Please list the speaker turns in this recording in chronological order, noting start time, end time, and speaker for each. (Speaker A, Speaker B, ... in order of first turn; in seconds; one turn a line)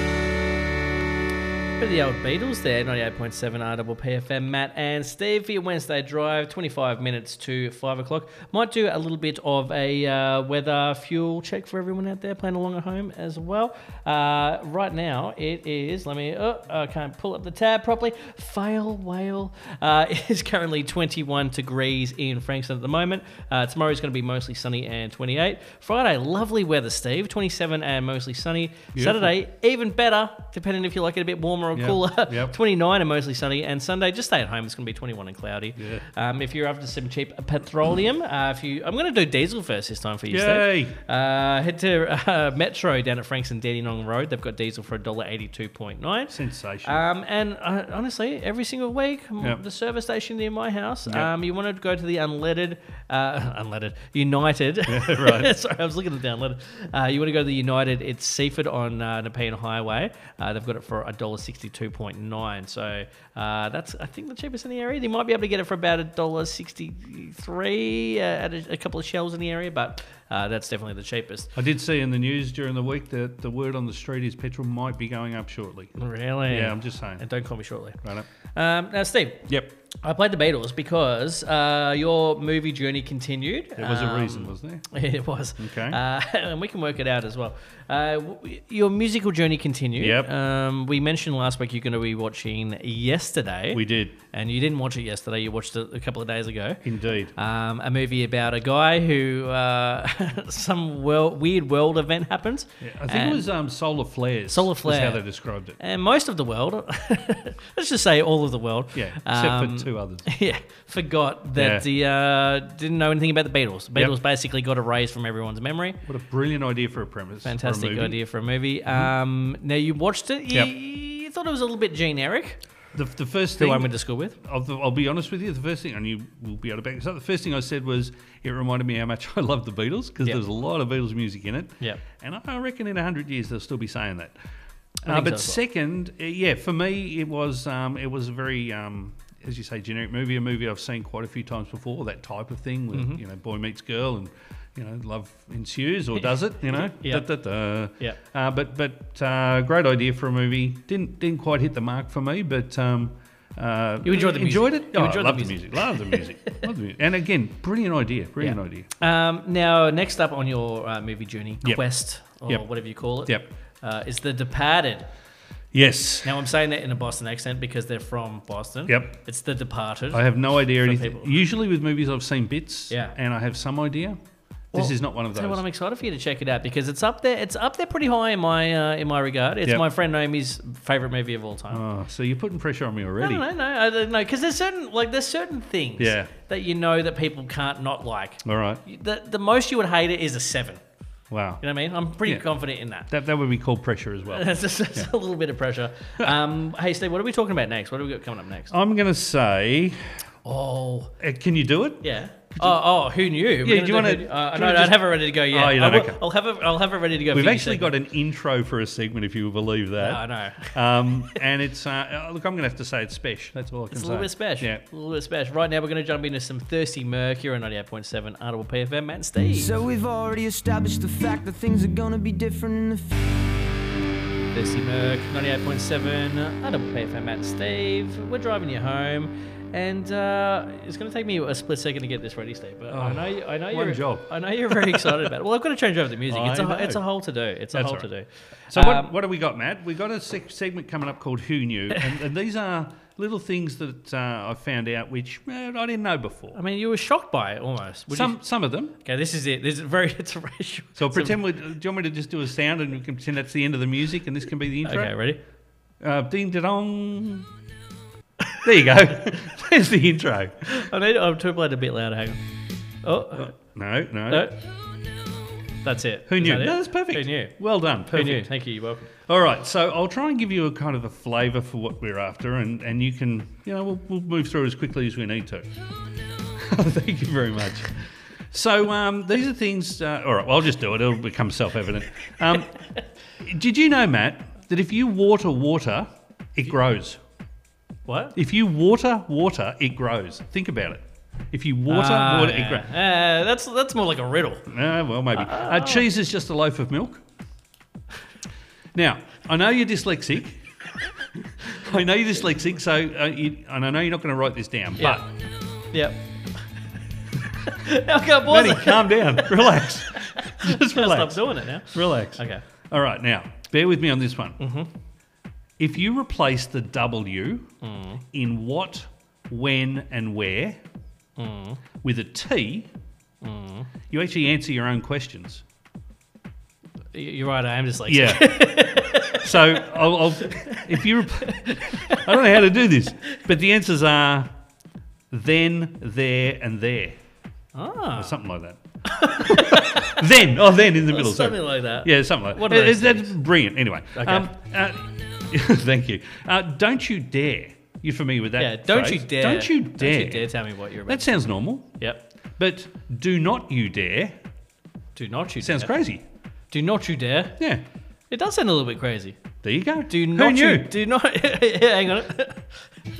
Speaker A: 1.8-71.5
Speaker B: 28.9-29.3
Speaker B: 31.7-32.5
Speaker B: 35.8-36.0
Speaker B: 40.3-41.0
Speaker B: 46.3-47.0
Speaker B: 54.9-55.5
Speaker B: 71.5-76.0
Speaker A: 76.0-78.0
Speaker B: 76.5-77.2
Speaker A: 78.5-79.5
Speaker A: 80.0-96.8
Speaker B: 83.8-84.8
Speaker B: 85.6-86.0
Speaker B: 90.0-90.3
Speaker B: 93.7-94.2
Speaker B: 96.8-97.3
Speaker A: 97.3-103.5
Speaker B: 102.8-105.8
Speaker A: 104.5-105.2
Speaker A: 105.8-116.0
Speaker B: 108.9-110.3
Speaker B: 111.5-111.8
Speaker B: 116.0-118.2
Speaker A: 117.4-122.6
Speaker B: 122.9-134.3
Speaker A: 123.6-124.4
Speaker A: 135.0-135.6
Speaker B: 135.0-158.9
Speaker A: 142.9-143.2
Speaker A: 146.7-147.3
Speaker A: 154.0-156.6
Speaker A: 158.4-165.1
Speaker B: 161.6-162.6
Speaker B: 165.7-166.3
Speaker A: 166.2-171.3
Speaker B: 168.9-169.1
Speaker B: 170.1-174.2
Speaker A: 172.9-173.1
Speaker B: 174.7-175.6
Speaker A: 174.7-181.8
Speaker B: 181.7-183.4
Speaker A: 183.2-190.8
Speaker B: 186.0-186.3
Speaker B: 188.4-188.8
Speaker B: 191.3-191.6
Speaker A: 191.6-193.1
Speaker B: 193.1-195.1
Speaker A: 194.3-198.7
Speaker B: 198.7-200.1
Speaker A: 200.4-201.1
Speaker B: 201.2-202.0
Speaker A: 202.0-207.9
Speaker B: 202.5-202.8
Speaker B: 203.6-206.2
Speaker B: 207.3-214.8
Speaker A: 210.0-211.4
Speaker A: 213.9-219.7
Speaker C: 219.5-223.3
Speaker A: 224.5-239.1
Speaker B: 232.9-235.3
Speaker B: 236.3-237.0
Speaker B: 237.7-238.1
Speaker B: 238.7-246.6
Speaker A: 246.5-248.4
Speaker B: 248.1-248.9
Speaker A: 249.0-251.4
Speaker B: 250.9-255.1
Speaker A: 254.8-255.4
Speaker B: 256.0-257.5
Speaker B: 258.6-260.8
Speaker A: 260.6-262.4
Speaker A: 263.0-263.5
Speaker B: 263.3-264.5
Speaker A: 264.3-264.6
Speaker A: 265.8-267.6
Speaker B: 266.3-268.5
Speaker A: 268.1-269.1
Speaker B: 269.2-275.7
Speaker B: 276.6-278.0
Speaker B: 278.5-282.7
Speaker B: 283.4-287.2
Speaker A: 288.1-288.3
Speaker B: 288.4-292.9
Speaker A: 291.9-294.7
Speaker B: 294.7-297.2
Speaker A: 295.3-296.1
Speaker B: 298.9-300.6
Speaker B: 301.3-305.3
Speaker A: 305.9-306.3
Speaker A: 307.6-312.6
Speaker B: 308.4-314.6
Speaker A: 314.6-314.9
Speaker B: 315.8-317.7
Speaker A: 317.8-318.2
Speaker B: 318.3-320.8
Speaker A: 321.4-321.8
Speaker B: 322.0-322.9
Speaker A: 323.4-323.9
Speaker B: 324.1-325.6
Speaker A: 327.1-332.6
Speaker B: 328.1-334.5
Speaker B: 335.3-337.2
Speaker A: 337.7-338.4
Speaker B: 338.1-350.5
Speaker A: 339.1-340.3
Speaker A: 341.0-343.4
Speaker A: 344.1-344.5
Speaker A: 348.6-352.2
Speaker B: 351.1-351.9
Speaker B: 352.6-354.4
Speaker A: 355.1-355.9
Speaker B: 355.6-356.2
Speaker A: 356.7-357.6
Speaker B: 357.6-357.8
Speaker A: 358.3-359.4
Speaker B: 359.6-360.9
Speaker A: 360.1-362.8